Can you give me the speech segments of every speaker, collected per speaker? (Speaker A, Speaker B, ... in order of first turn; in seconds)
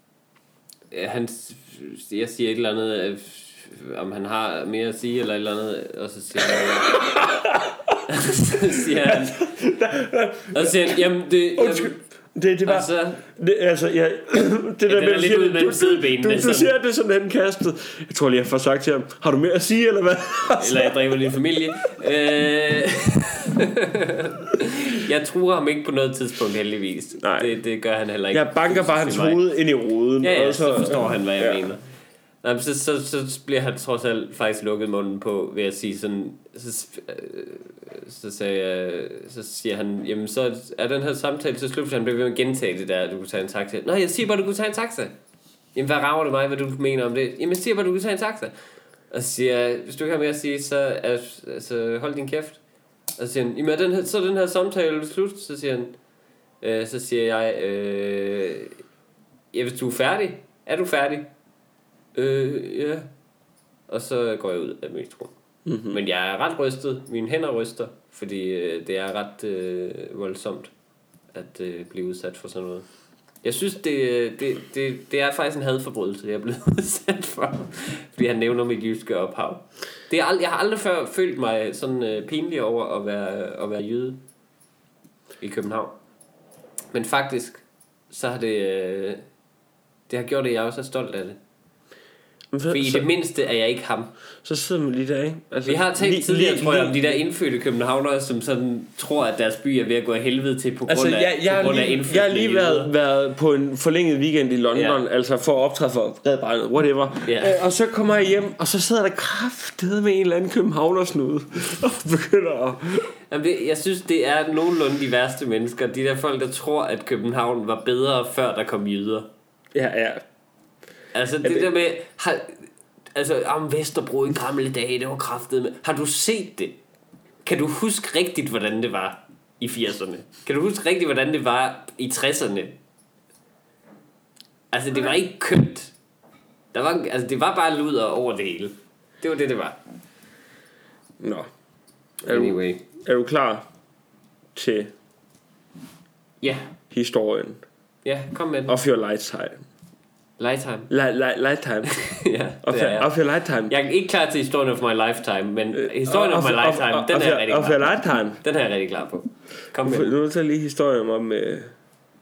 Speaker A: 0.9-7.0, 8.1-9.4, 10.5-11.9, 12.6-13.2, 14.8-16.7, 20.6-29.4, 30.2-31.8, 32.4-45.1, 45.7-48.5, 49.1-52.6, 53.2-55.9, 56.6-58.8, 59.5-61.3, 62.1-63.1, 63.9-65.3, 65.9-70.7, 71.3-72.8, 73.4-84.2, 85.4-86.0, 86.9-89.2, 90.1-91.4, 92.7-94.1, 95.6-102.9, 104.7-105.0, 107.2-107.6, 113.3-119.3, 121.1-126.8, 127.4-132.8, 134.7-135.9, 136.7-139.8, 142.2-142.8, 146.4-146.7, 148.0-148.8, 150.4-150.9, 151.9-153.1, 153.7-160.1
Speaker B: 6.6-11.0, 11.5-21.3, 27.2-27.5, 28.3-31.6, 65.7-66.0, 92.5-93.1, 94.4-97.0, 100.9-113.1, 119.7-120.2, 121.4-121.7, 141.2-141.5, 142.2-143.7, 144.5-144.9, 146.9-147.6, 148.7-149.6, 150.9-151.9, 152.6-153.7, 155.7-158.4, 159.8-161.7